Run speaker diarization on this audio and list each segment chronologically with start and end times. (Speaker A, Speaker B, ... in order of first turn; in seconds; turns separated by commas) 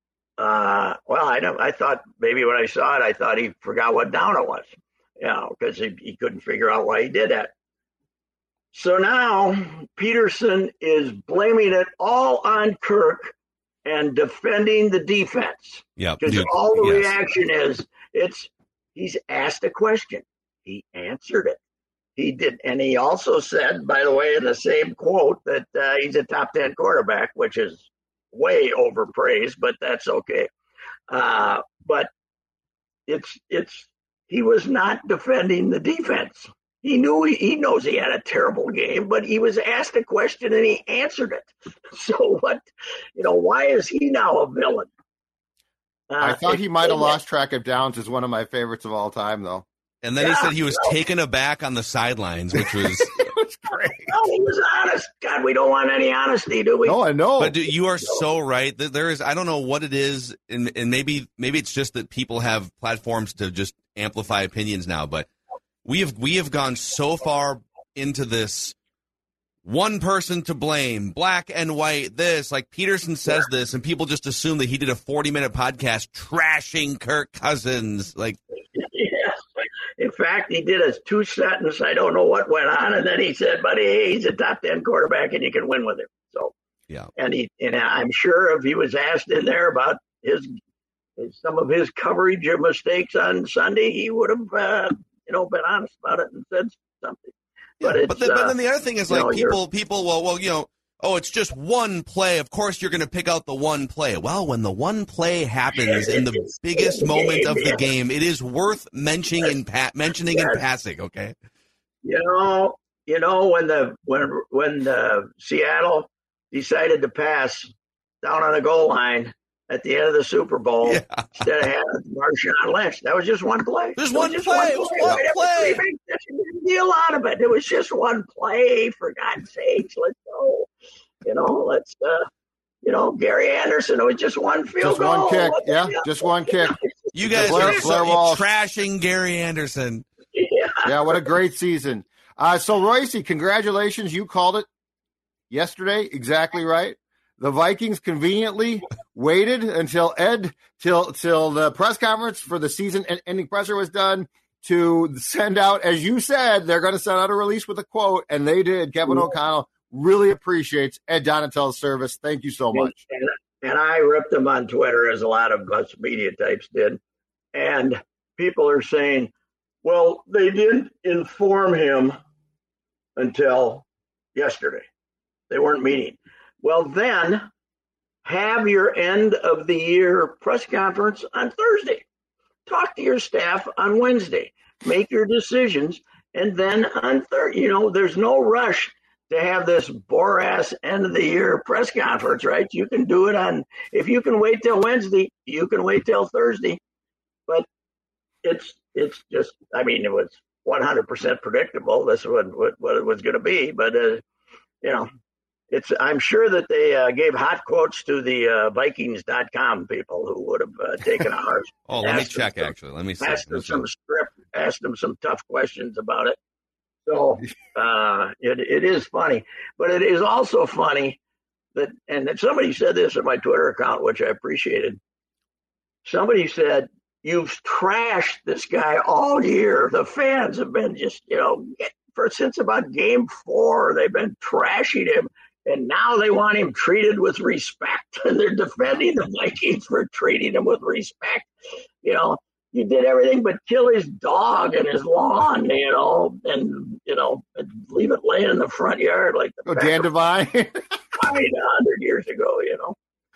Speaker A: 0.4-7.5, Speaker A: 8.7-13.3, Speaker A: 13.8-21.6, Speaker B: 16.0-17.1, Speaker A: 22.2-30.5, Speaker A: 31.1-32.1, Speaker A: 33.1-42.6, Speaker A: 43.2-44.9, Speaker A: 46.1-47.2, Speaker C: 46.2-49.6, Speaker B: 50.0-53.3, Speaker A: 50.2-51.0, Speaker C: 52.7-54.1, Speaker A: 54.0-57.0, Speaker C: 56.9-57.6, Speaker B: 57.4-65.3, Speaker B: 65.8-68.8, Speaker B: 69.7-78.4, Speaker A: 78.8-86.5, Speaker A: 87.2-90.5, Speaker A: 91.2-98.5, Speaker B: 97.8-111.3, Speaker A: 99.1-99.6, Speaker A: 105.7-107.9, Speaker A: 110.3-110.6, Speaker A: 112.0-130.7, Speaker B: 120.8-121.5, Speaker B: 124.0-125.8, Speaker A: 131.2-132.3, Speaker A: 132.8-137.9, Speaker C: 134.8-136.8, Speaker B: 137.2-140.1, Speaker C: 137.3-138.4, Speaker A: 140.3-141.2, Speaker C: 140.8-144.7, Speaker C: 145.5-163.0, Speaker A: 162.7-167.0, Speaker A: 167.5-169.3, Speaker A: 169.8-172.2, Speaker A: 173.2-174.9, Speaker A: 175.5-177.5, Speaker A: 178.2-182.0, Speaker A: 182.7-196.8, Speaker A: 198.4-204.2, Speaker A: 204.8-205.1, Speaker A: 205.7-216.4, Speaker B: 211.9-213.9, Speaker A: 217.1-221.2, Speaker A: 221.8-225.0, Speaker A: 226.1-241.5, Speaker A: 242.0-250.1, Speaker C: 249.7-250.8, Speaker A: 251.1-253.0